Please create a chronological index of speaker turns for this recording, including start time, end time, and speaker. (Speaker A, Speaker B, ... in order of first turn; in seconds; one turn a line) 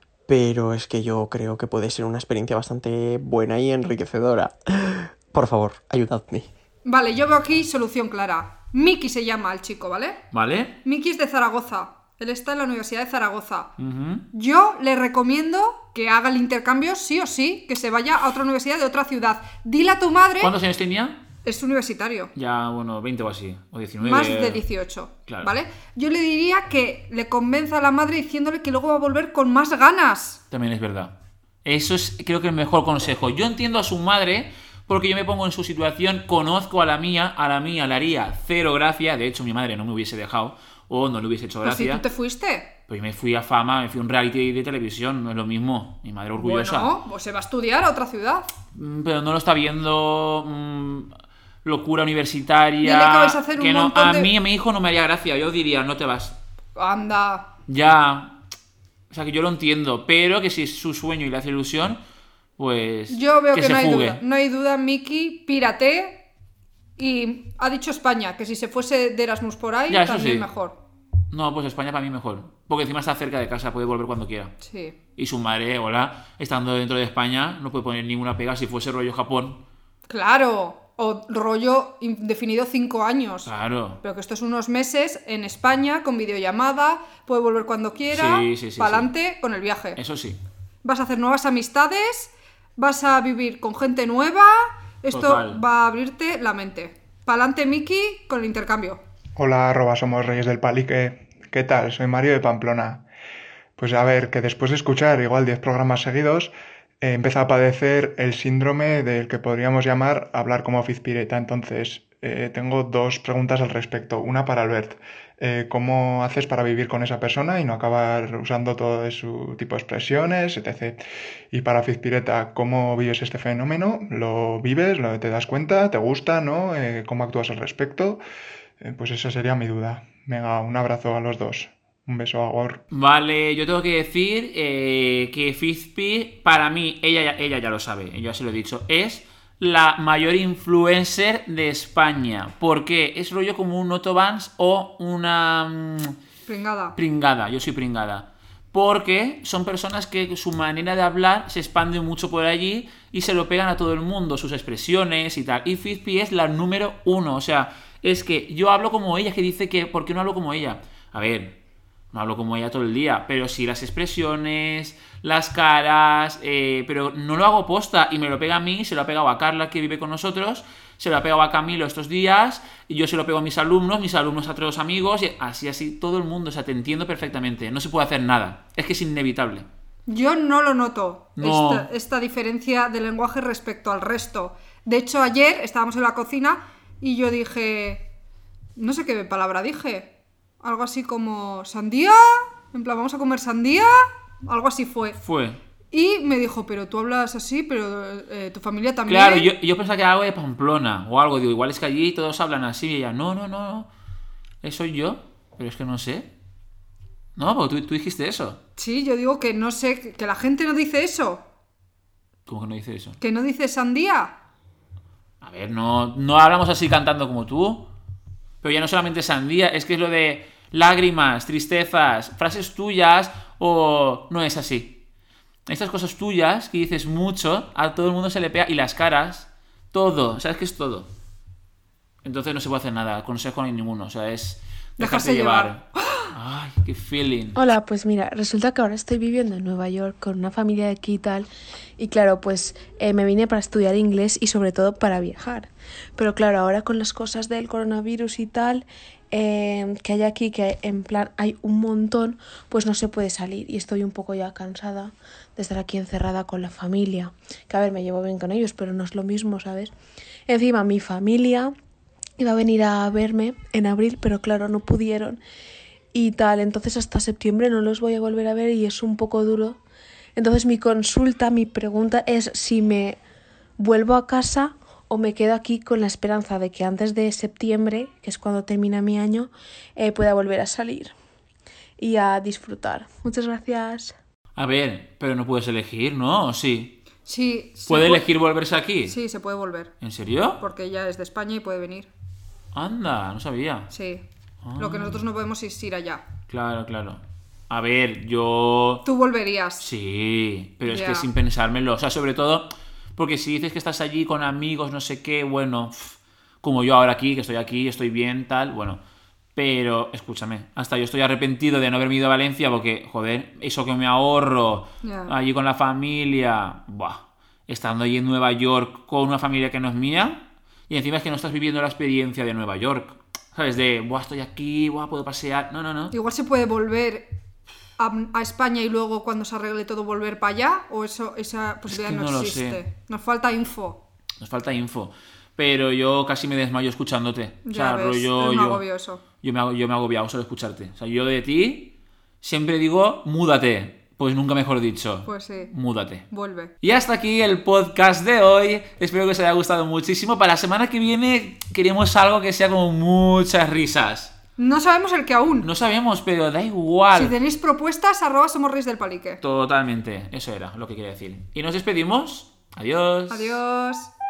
Speaker A: 0.3-6.5
Speaker B: 6.8-10.2
Speaker C: 10.3-10.8
Speaker B: 10.8-13.7
Speaker C: 13.8-14.3
Speaker B: 14.3-20.5
Speaker C: 20.4-21.2
Speaker B: 21.4-22.3
Speaker C: 22.4-24.6
Speaker B: 24.0-30.4
Speaker C: 30.5-31.1
Speaker C: 31.6-42.0
Speaker B: 41.6-42.7
Speaker C: 42.9-46.9
Speaker B: 46.4-48.5
Speaker C: 48.8-51.1
Speaker C: 51.6-56.4
Speaker B: 52.8-54.3
Speaker B: 56.8-57.5
Speaker C: 57.7-58.4
Speaker C: 59.1-62.0
Speaker C: 62.6-64.2
Speaker B: 63.1-66.2
Speaker B: 67.0-70.8
Speaker C: 69.9-70.5
Speaker C: 71.3-74.5
Speaker B: 74.6-75.0
Speaker C: 75.2-79.6
Speaker B: 80.1-83.5
Speaker C: 83.5-84.0
Speaker B: 84.0-90.0
Speaker C: 88.1-89.1
Speaker C: 90.0-90.4
Speaker B: 90.8-99.0
Speaker C: 95.1-95.6
Speaker D: 99.4-103.0
Speaker D: 103.8-121.0
Speaker D: 121.5-128.2
Speaker D: 128.8-132.8
Speaker C: 132.9-146.2
Speaker B: 146.5-147.0
Speaker C: 147.0-161.6
Speaker C: 162.1-179.7
Speaker B: 180.1-188.1
Speaker C: 181.4-181.9
Speaker B: 188.8-190.1
Speaker B: 190.6-195.2
Speaker C: 195.2-195.6
Speaker B: 195.9-199.5
Speaker C: 199.1-203.9
Speaker C: 204.6-206.3
Speaker C: 207.4-208.6
Speaker B: 208.8-211.4
Speaker C: 212.5-213.2
Speaker B: 213.2-214.3
Speaker C: 215.4-217.9
Speaker C: 218.6-225.0
Speaker C: 225.7-231.1
Speaker C: 232.2-237.6
Speaker B: 235.0-236.3
Speaker E: 237.6-259.9
Speaker E: 260.5-261.7
Speaker E: 262.4-265.4
Speaker E: 266.1-269.8
Speaker E: 270.4-273.2
Speaker E: 273.8-281.1
Speaker E: 282.0-284.1
Speaker C: 284.6-287.0
Speaker B: 287.2-288.3
Speaker C: 287.9-289.2
Speaker B: 289.1-289.9
Speaker C: 290.0-290.6
Speaker B: 290.6-292.1
Speaker C: 292.7-293.9
Speaker B: 293.9-294.2
Speaker C: 294.6-295.2
Speaker B: 294.8-296.2
Speaker C: 296.5-299.1
Speaker B: 299.1-299.8
Speaker C: 299.8-309.0
Speaker B: 300.9-301.3
Speaker C: 309.6-326.1
Speaker B: 315.0-315.3
Speaker B: 326.1-327.3
Speaker B: 328.0-334.0
Speaker C: 331.9-332.8
Speaker C: 334.4-338.8
Speaker B: 337.7-339.2
Speaker C: 339.4-346.3
Speaker B: 345.2-345.7
Speaker B: 346.3-346.7
Speaker C: 346.8-354.3
Speaker B: 354.6-355.7
Speaker C: 355.6-357.4
Speaker B: 357.1-359.4
Speaker C: 359.4-363.6
Speaker B: 363.3-364.1